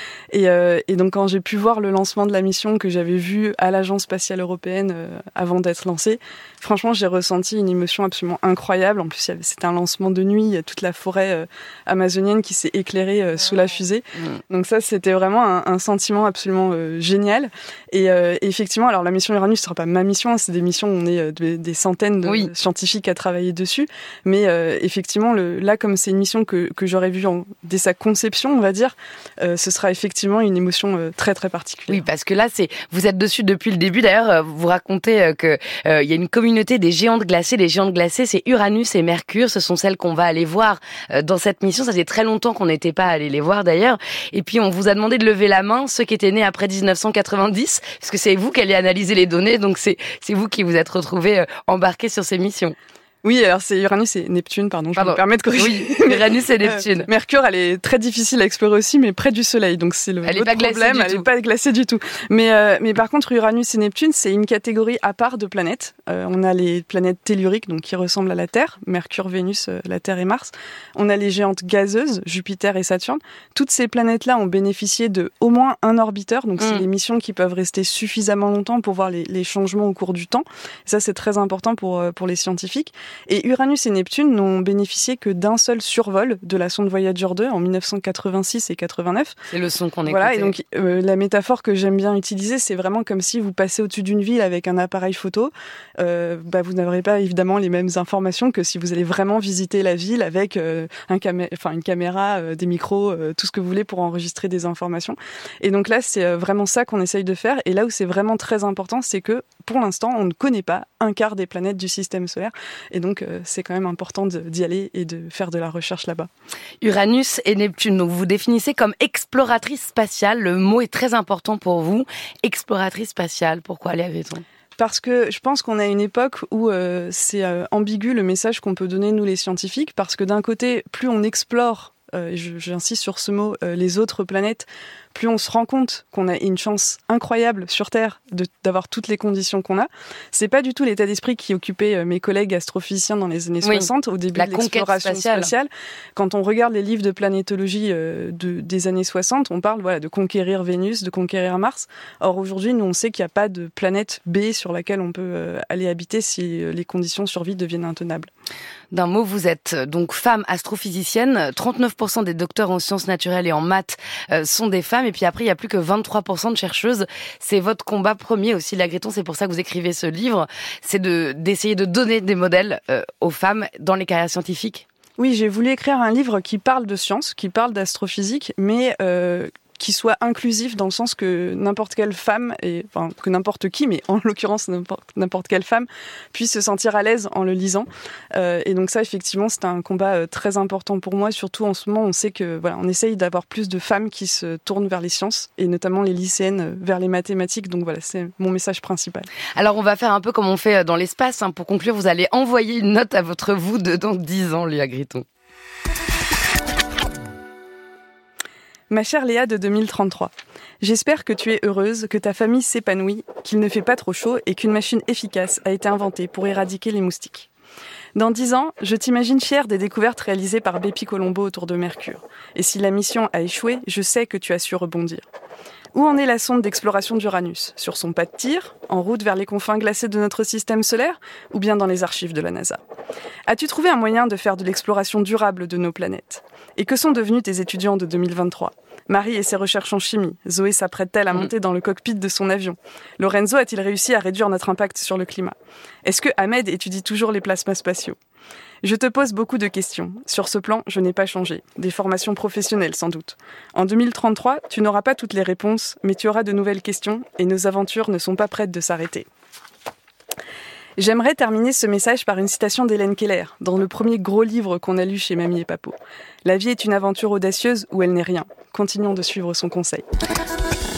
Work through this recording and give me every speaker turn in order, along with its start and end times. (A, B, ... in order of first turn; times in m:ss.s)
0:00.3-0:32.0 A
0:22.2-0:22.5 B
0:31.9-0:52.7 B
0:53.2-1:29.4 A
0:54.9-0:57.1 B
1:00.2-1:01.2 B
1:16.6-1:16.8 B
1:29.5-1:30.5 B
1:30.1-1:56.3 A
1:56.8-2:04.4 B
2:04.8-2:38.3 A
2:23.6-2:25.5 B
2:38.9-2:54.8 B
2:55.2-3:19.3 A
3:19.6-3:25.2 B
3:28.9-3:37.5 A
3:38.2-3:45.2 A
3:45.9-3:52.8 A
3:53.5-4:08.2 A
4:08.8-4:19.3 A
4:21.0-4:30.0 A